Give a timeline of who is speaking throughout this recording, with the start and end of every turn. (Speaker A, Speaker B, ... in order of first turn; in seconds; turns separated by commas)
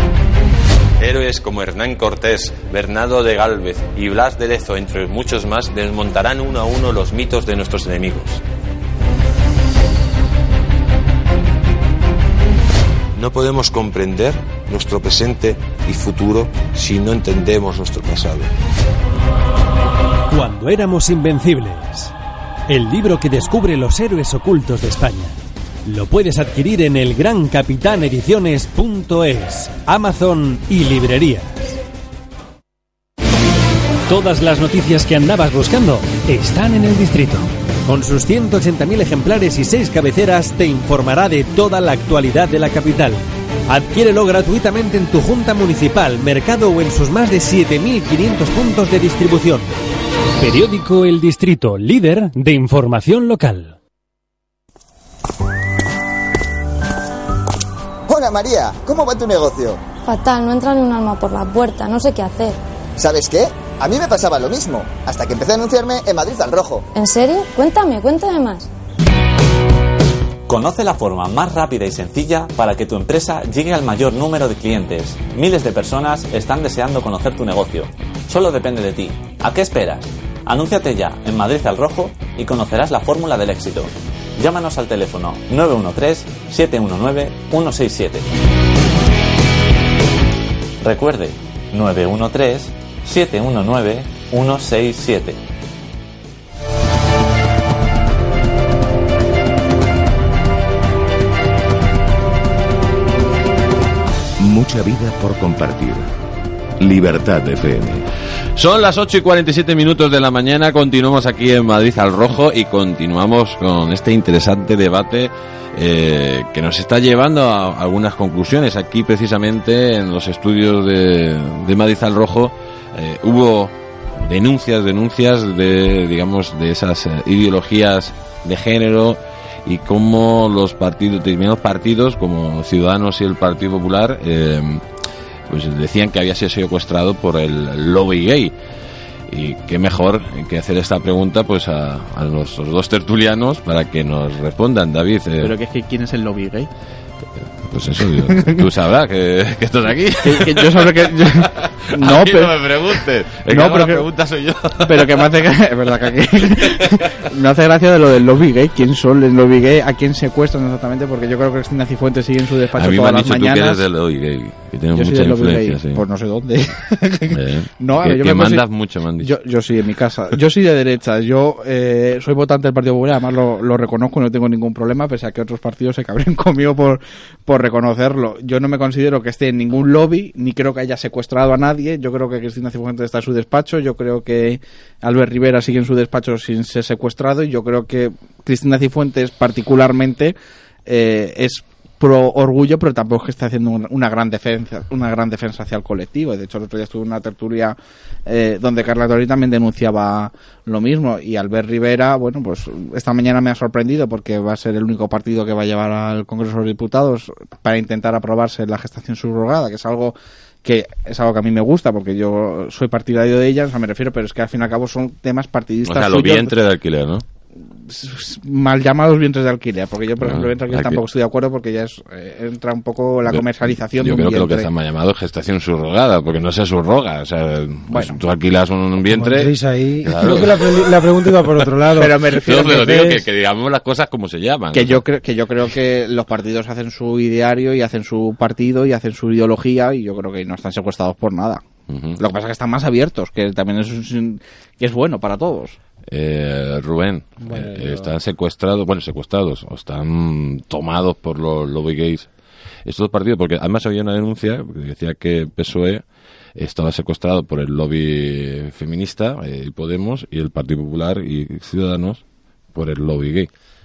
Speaker A: 1.0-8.4, Speaker A: 13.1-18.5, Speaker B: 20.3-22.1, Speaker B: 22.7-31.6, Speaker B: 34.1-49.8, Speaker B: 50.4-53.8, Speaker C: 58.1-59.8, Speaker D: 60.0-62.6, Speaker C: 63.0-66.9, Speaker D: 66.9-68.7, Speaker E: 70.5-88.2, Speaker E: 90.8-95.4, Speaker F: 104.4-106.1, Speaker F: 106.8-108.0, Speaker G: 108.5-134.8, Speaker G: 135.5-138.5, Speaker G: 139.3-145.5, Speaker H: 145.4-146.7, Speaker G: 147.6-155.3, Speaker H: 148.3-148.6, Speaker H: 150.2-152.6, Speaker H: 153.5-154.1, Speaker H: 154.8-163.8, Speaker G: 162.7-166.0, Speaker H: 164.9-168.6, Speaker G: 167.3-169.3, Speaker H: 169.2-190.3, Speaker H: 190.8-216.5, Speaker G: 215.8-217.2, Speaker H: 217.6-224.7, Speaker G: 220.2-221.0, Speaker G: 223.3-229.5, Speaker H: 227.9-228.2, Speaker I: 229.1-233.2, Speaker G: 230.1-230.8, Speaker H: 231.9-233.0, Speaker G: 232.3-235.0, Speaker H: 234.7-241.6, Speaker G: 241.9-242.2, Speaker H: 242.2-245.8, Speaker G: 246.1-252.3, Speaker I: 247.4-248.1, Speaker G: 252.8-256.0, Speaker G: 256.6-262.2, Speaker G: 262.7-263.5